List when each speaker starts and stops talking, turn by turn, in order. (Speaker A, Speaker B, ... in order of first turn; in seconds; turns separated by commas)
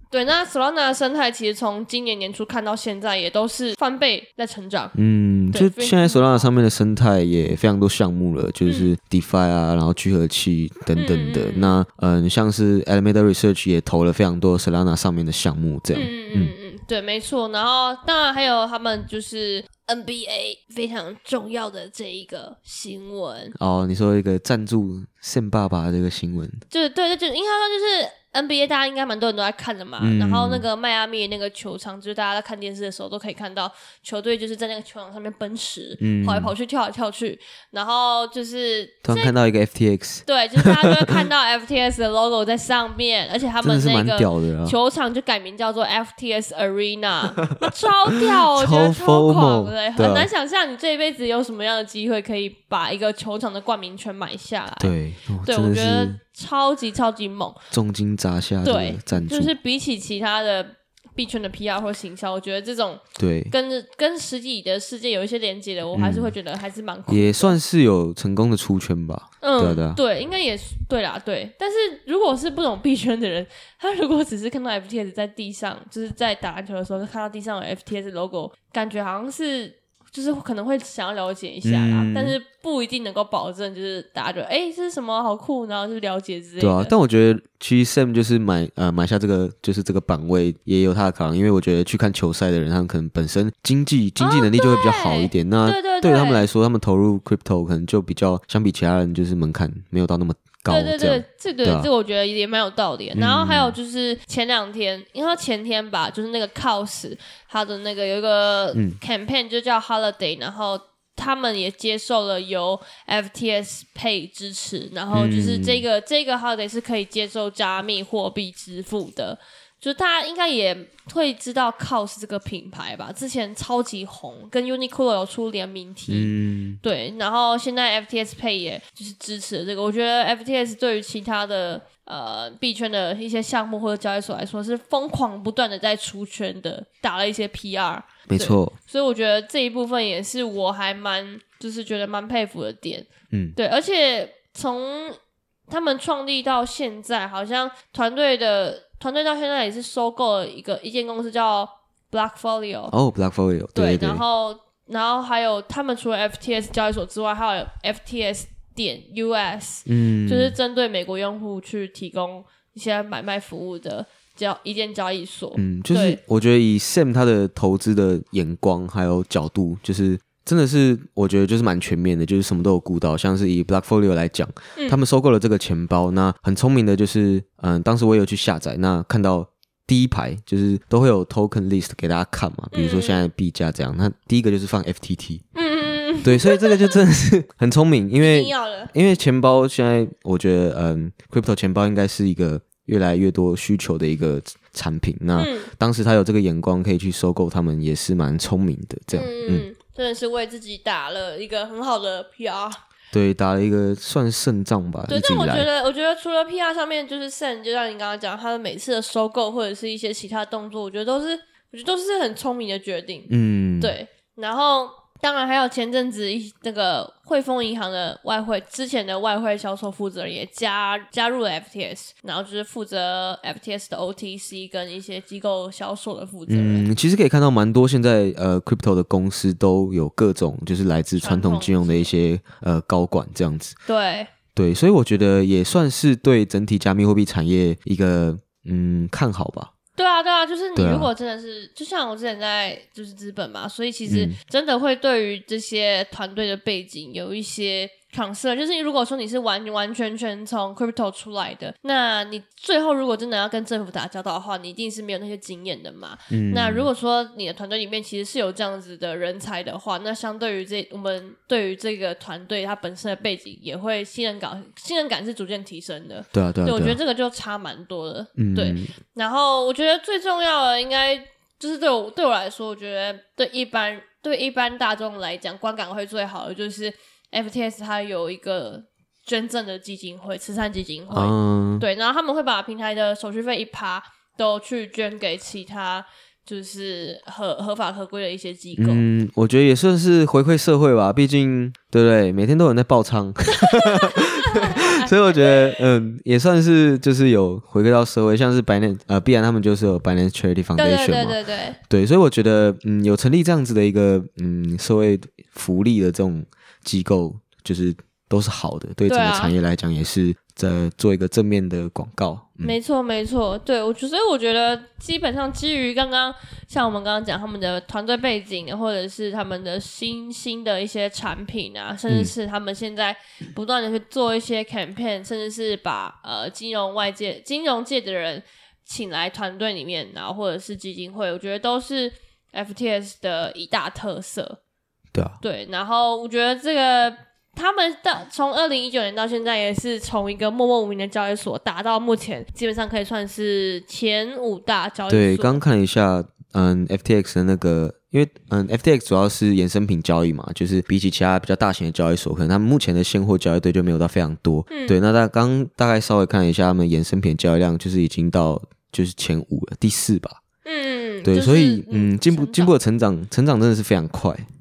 Speaker A: 0.1-4.9, Speaker B: 5.0-16.5, Speaker A: 5.5-6.5, Speaker A: 8.7-8.9, Speaker A: 10.9-11.8, Speaker A: 15.9-23.6, Speaker B: 23.6-26.6, Speaker A: 26.7-39.3, Speaker B: 30.0-30.6, Speaker B: 36.0-36.5, Speaker B: 39.0-41.3, Speaker A: 40.3-57.6, Speaker B: 43.6-44.8, Speaker B: 48.5-50.3, Speaker B: 54.8-56.2, Speaker B: 57.7-59.5, Speaker A: 58.6-67.6, Speaker B: 63.2-63.5, Speaker B: 65.9-66.3, Speaker B: 67.1-70.0, Speaker A: 69.4-86.9, Speaker B: 81.6-82.4, Speaker B: 86.6-101.9, Speaker A: 94.2-96.5, Speaker A: 100.7-145.2, Speaker B: 103.2-103.8, Speaker B: 115.1-115.8, Speaker B: 126.1-126.8, Speaker B: 138.3-138.7, Speaker B: 143.3-143.6, Speaker A: 145.7-152.9, Speaker B: 152.9-154.2, Speaker A: 153.8-166.2, Speaker B: 159.9-160.6, Speaker B: 165.6-185.4, Speaker A: 182.7-183.3, Speaker A: 185.5-186.8, Speaker B: 186.2-199.7, Speaker A: 188.2-188.9, Speaker A: 195.3-195.7, Speaker A: 199.1-202.8, Speaker B: 203.1-205.7, Speaker A: 205.1-226.9, Speaker B: 213.3-214.0, Speaker B: 226.5-233.8, Speaker A: 231.2-232.1, Speaker A: 233.9-234.3, Speaker B: 234.6-239.7, Speaker A: 240.0-289.1, Speaker B: 240.8-241.1, Speaker B: 244.1-244.4, Speaker B: 256.3-256.9, Speaker B: 266.3-267.0, Speaker B: 268.4-268.9, Speaker B: 281.1-281.9, Speaker B: 288.8-312.8, Speaker A: 293.8-295.6, Speaker A: 300.8-301.8, Speaker A: 309.1-309.6, Speaker A: 312.6-334.6, Speaker B: 335.1-335.4, Speaker A: 335.4-345.6, Speaker B: 345.1-360.4, Speaker A: 354.7-355.0, Speaker A: 360.6-362.7, Speaker B: 361.2-364.5